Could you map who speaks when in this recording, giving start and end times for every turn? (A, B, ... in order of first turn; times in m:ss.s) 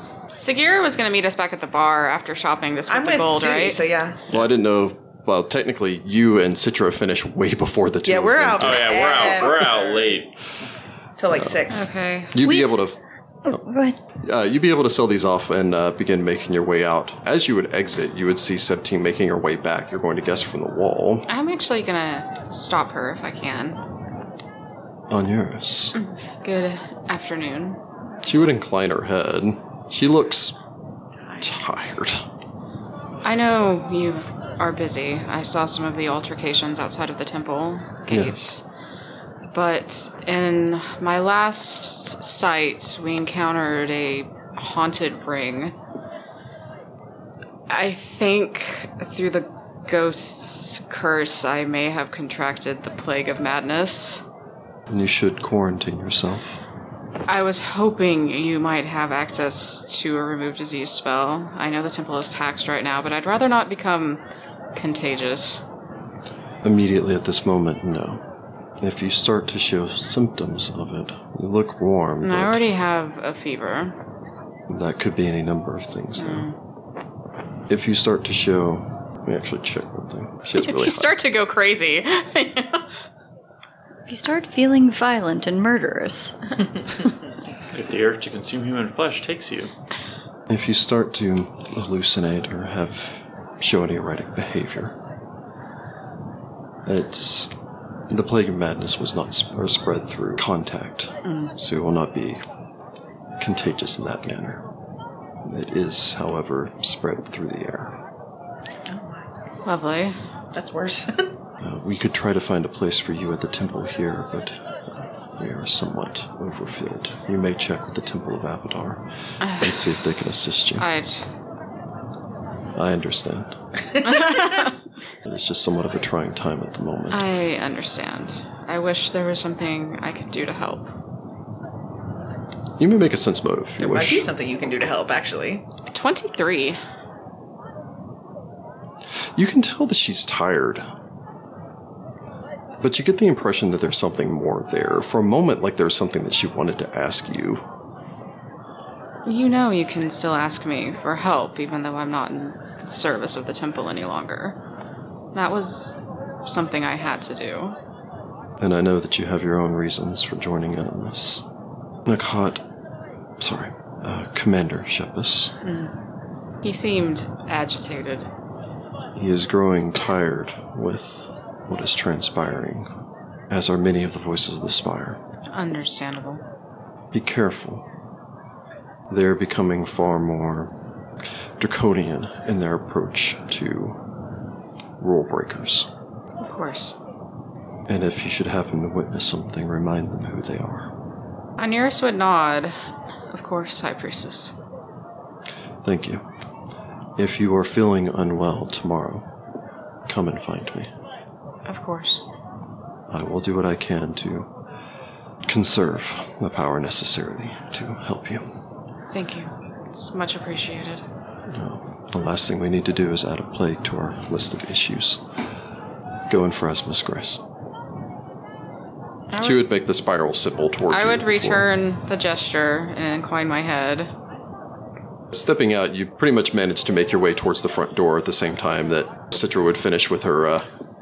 0:00.4-0:03.8 A
0:02.9-0:04.2 B
0:04.3-0:09.0 C
0:08.1-0:10.1 B
0:08.6-0:10.3 D
0:11.2-0:11.9 B
0:11.3-0:11.6 C
0:11.7-0:12.4 A
0:12.3-0:13.0 C
0:12.4-0:12.7 E
0:13.5-0:14.0 E
0:14.2-0:21.3 C
0:21.3-0:23.8 A
0:25.1-0:26.0 C
0:25.9-0:27.8 A
0:28.2-0:30.6 C
0:31.4-0:32.2 C
0:33.2-0:38.6 A
0:38.1-0:38.6 C
0:39.5-0:45.8 A
0:47.7-0:54.2 A
0:54.9-0:56.4 C
0:57.3-1:04.2 A
1:04.8-1:05.6 A
1:06.6-1:08.2 C
1:08.8-1:12.6 C
1:12.2-1:14.0 A
1:14.7-1:16.5 C
1:16.2-1:16.6 A
1:17.7-1:21.1 C
1:20.6-1:22.9 A
1:24.1-1:26.4 E
1:27.7-1:29.7 D
1:30.5-1:35.0 C
1:36.9-1:37.5 C
1:38.1-1:42.4 C
1:41.2-1:41.5 A
1:43.4-1:44.6 C
1:45.4-1:48.0 C
1:48.9-1:49.3 B
1:49.6-1:50.2 A
1:50.5-1:51.3 B
1:51.6-1:59.0 C
1:59.4-1:59.8 A
1:59.6-2:00.9 C
2:00.8-2:01.3 A
2:02.8-2:03.6 C
2:04.0-2:04.8 A
2:05.2-2:07.3 C
2:07.1-2:10.9 A
2:12.8-2:14.3 C
2:13.8-2:15.6 B
2:15.9-2:16.8 A
2:19.4-2:20.9 C
2:22.8-2:27.6 C
2:29.2-2:34.6 A
2:35.3-2:37.8 A
2:38.6-2:41.4 C
2:42.1-2:42.6 C
2:43.4-2:45.6 C
2:45.6-2:45.9 A
2:46.6-2:48.3 A
2:49.2-2:52.9 C
2:53.5-2:55.2 C
2:55.5-2:56.4 A
2:57.1-2:57.8 C
2:59.1-3:00.7 C
3:01.6-3:04.0 C
3:05.0-3:05.9 C
3:06.4-3:07.0 A
3:07.9-3:10.9 C
3:11.6-3:12.8 A
3:13.3-3:14.5 A
3:15.8-3:16.2 C
3:17.2-3:19.3 C
3:20.1-3:20.9 C
3:21.7-3:22.2 A
3:23.1-3:24.5 C
3:25.4-3:28.4 C
3:29.1-3:31.0 A
3:31.5-3:35.2 C
3:36.3-3:37.4 C
3:39.3-3:39.6 A
3:39.4-3:41.7 C
3:40.9-3:44.1 A
3:45.3-3:50.7 C